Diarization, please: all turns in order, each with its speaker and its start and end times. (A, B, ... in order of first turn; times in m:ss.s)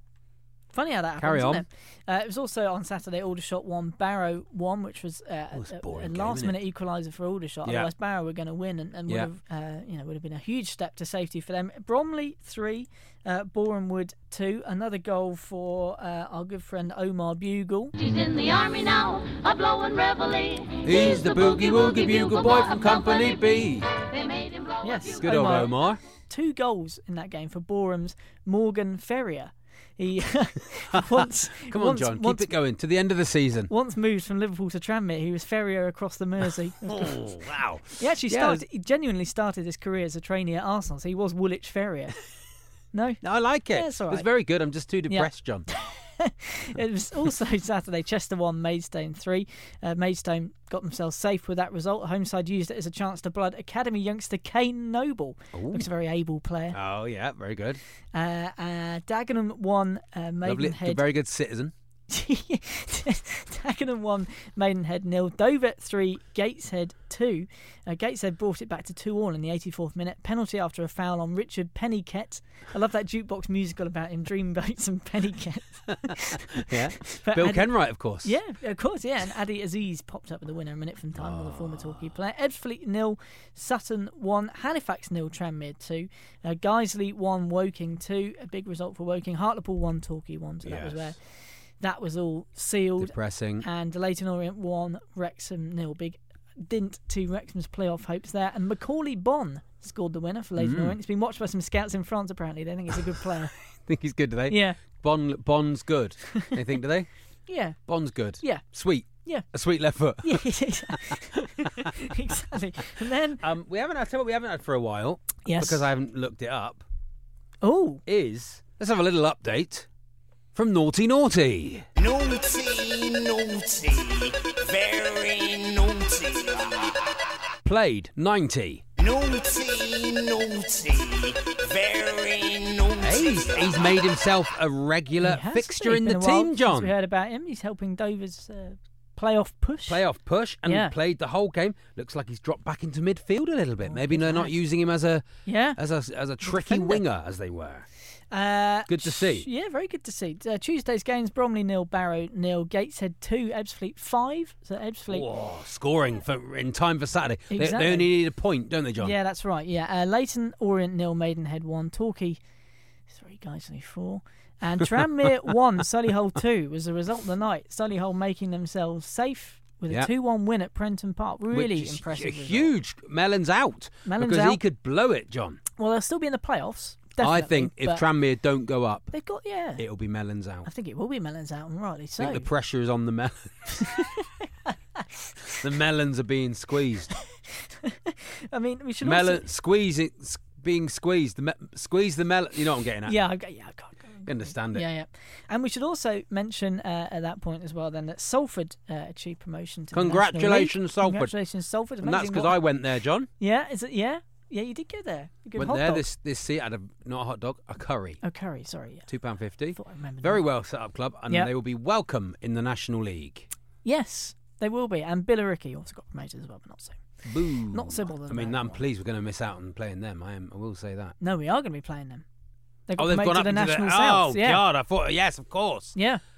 0:00.7-0:17.9 A
0:01.2-0:01.6 B
0:05.5-0:06.6 B
0:07.6-0:07.9 B
0:18.0-0:25.2 C
0:20.8-0:23.9 B
0:24.8-0:25.8 A
0:25.2-0:26.0 B
0:26.3-0:32.5 A
0:30.9-0:33.7 B
0:33.7-0:37.2 A
0:36.9-0:38.6 B
0:38.0-0:42.2 A
0:42.9-0:44.3 A
0:43.2-0:45.7 B
0:45.1-0:56.8 A
0:55.5-0:55.9 B
0:56.7-0:57.8 B
0:58.1-1:01.0 A
1:00.4-1:01.7 B
1:02.1-1:31.2 A
1:16.7-1:18.3 B
1:21.2-1:22.1 B
1:30.6-1:31.2 B
1:31.7-1:43.5 A
1:33.0-1:33.6 B
1:40.6-1:41.0 B
1:43.8-1:47.1 B
1:44.5-1:44.8 A
1:47.5-1:47.8 A
1:47.8-1:51.0 B
1:48.4-1:49.4 A
1:50.2-1:53.4 A
1:53.4-1:56.8 B
1:55.4-1:55.8 A
1:57.6-1:58.0 A
1:58.0-1:59.9 B
2:00.5-2:01.8 B
2:02.0-2:06.9 D
2:07.6-2:08.8 B
2:09.0-2:13.9 D
2:13.0-2:16.9 B
2:15.2-2:20.0 A
2:19.9-2:27.8 B
2:20.6-2:20.9 A
2:23.8-2:24.6 A
2:25.4-2:25.8 A
2:26.4-2:27.0 A
2:28.3-2:35.2 A
2:28.9-2:29.5 B
2:35.1-2:39.1 B
2:37.5-2:38.1 A
2:39.0-2:42.4 A
2:43.1-2:52.7 A
2:51.5-2:55.6 B
2:54.0-2:54.6 A
2:55.8-2:58.0 A
2:57.2-2:59.2 B
2:59.1-2:59.8 A
2:59.8-3:00.7 B
3:00.6-3:02.4 A
3:02.2-3:03.9 B
3:03.9-3:04.2 A
3:05.5-3:07.1 B
3:07.8-3:09.4 A
3:09.0-3:13.2 B
3:13.0-3:22.6 A
3:14.2-3:14.9 B
3:19.9-3:21.3 B
3:22.0-3:23.3 B
3:23.4-3:26.0 A
3:25.6-3:28.2 B
3:28.2-3:29.1 A
3:29.0-3:33.5 B
3:29.7-3:30.4 A
3:33.8-3:38.8 A
3:37.2-3:41.2 B
3:41.2-3:42.2 A
3:42.9-3:44.6 A
3:43.0-3:46.0 B
3:45.9-3:46.2 A